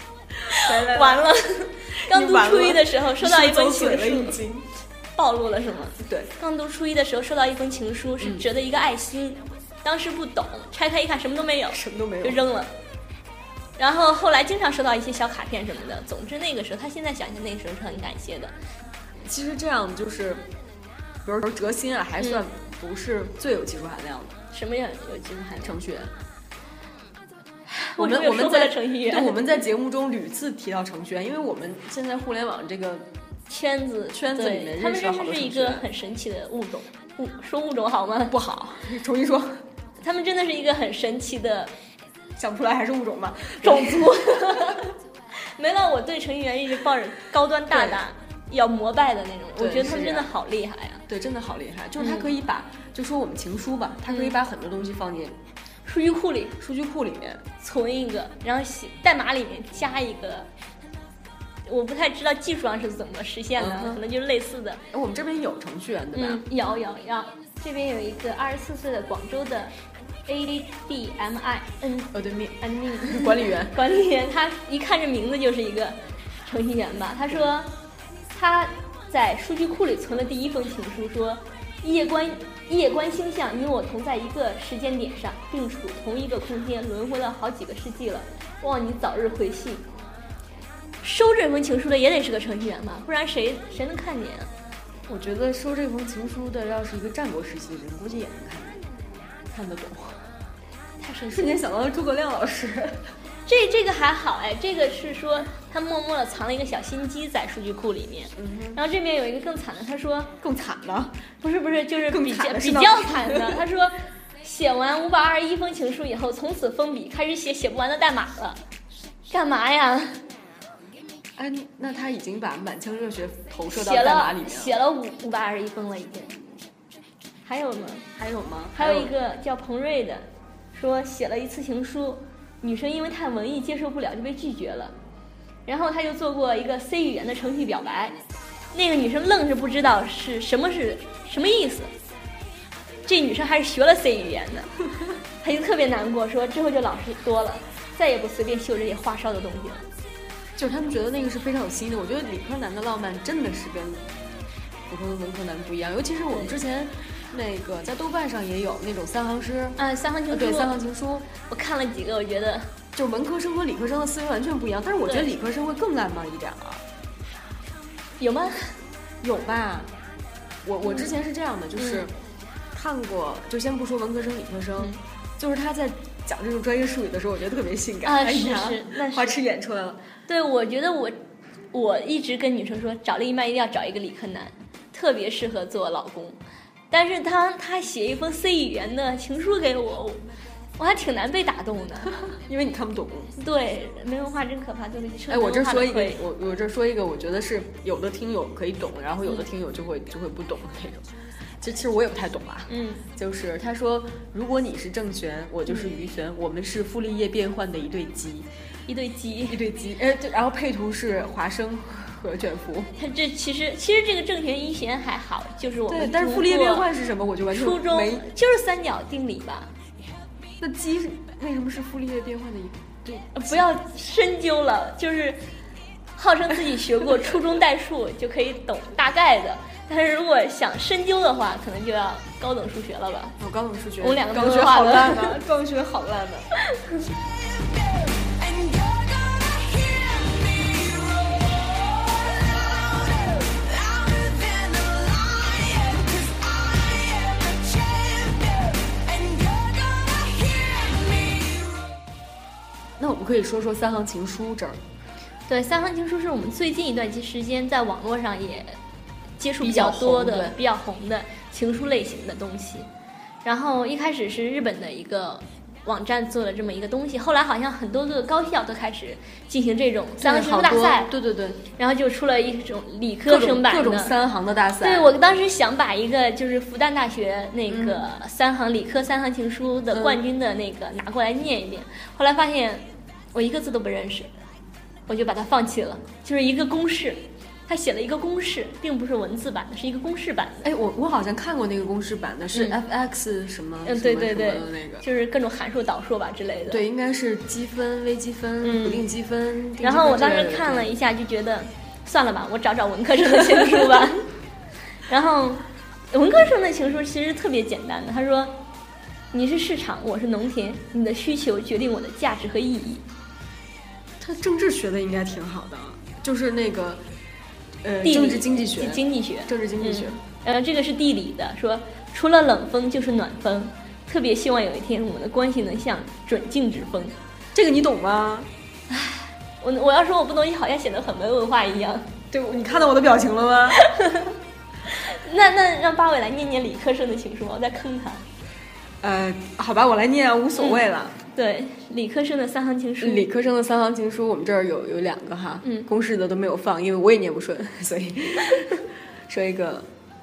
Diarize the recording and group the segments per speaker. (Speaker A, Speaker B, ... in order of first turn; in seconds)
Speaker A: 0.4-4.4, 5.2-12.7, 13.8-18.5, 24.5-25.8, 27.7-29.6, 33.5-38.3, 40.0-41.7, 43.6-51.0, 52.0-52.3, 54.1-54.4, 55.9-56.6, 57.6-60.5, 61.6-64.8, 66.1-69.7, 70.2-77.7, 78.3-89.9, 91.0-94.5, 101.0-101.6, 103.5-110.3, 111.4-118.6, 119.3-120.2, 123.7-126.4, 127.5-128.1, 128.7-134.9, 135.7-138.2, 138.7-141.9, 143.1-144.7, 145.4-149.8, 159.8-160.7, 161.4-162.7, 165.1-165.3, 168.2-168.8, 170.8-171.1, 171.8-172.1, 178.0-179.4, 180.3-181.2, 181.7-186.4, 186.9-190.2, 190.8-192.2, 193.3-196.2, 202.7-203.0, 208.9-209.6, 212.9-216.9, 217.5-219.7, 223.3-225.4, 226.2-233.4, 234.0-235.4, 255.5-258.8, 259.4-262.9, 263.4-271.1, 271.7-274.1, 274.8-284.3, 285.1-290.7, 293.8-296.8, 298.6-299.1, 299.8-304.3, 305.1-308.6, 309.3-313.0, 318.0-327.1, 328.9-332.1, 333.7-334.3, 334.9-338.2, 340.6-343.3
Speaker B: 0.5-1.3, 1.9-4.7, 6.0-6.3, 11.7-12.4, 19.2-20.5, 21.2-24.4, 25.6-26.1, 28.0-33.1, 34.1-35.9, 38.3-39.6, 42.4-44.8, 47.7-48.0, 49.6-50.3, 51.1-55.4, 56.6-57.4, 63.6-64.0, 64.9-66.4, 72.1-73.8, 95.1-98.8, 99.5-100.2, 101.3-103.1, 108.3-108.8, 110.4-111.2, 112.1-113.6, 121.4-124.7, 128.2-129.1, 150.6-154.1, 154.9-159.8, 160.3-161.3, 162.9-166.8, 169.2-169.9, 170.6-172.1, 172.7-180.0, 192.3-193.3, 195.3-201.1, 201.6-208.5, 209.5-212.9, 215.9-218.3, 220.6-223.6, 233.4-236.5, 253.0-254.8, 259.6-260.6, 270.2-271.6, 273.3-275.1, 277.7-278.0, 279.9-280.2, 290.6-295.0, 296.7-300.9, 314.2-317.0, 317.8-320.2, 327.5-328.5, 332.3-333.8, 339.0-341.1, 343.0-349.9
Speaker C: 237.0-251.8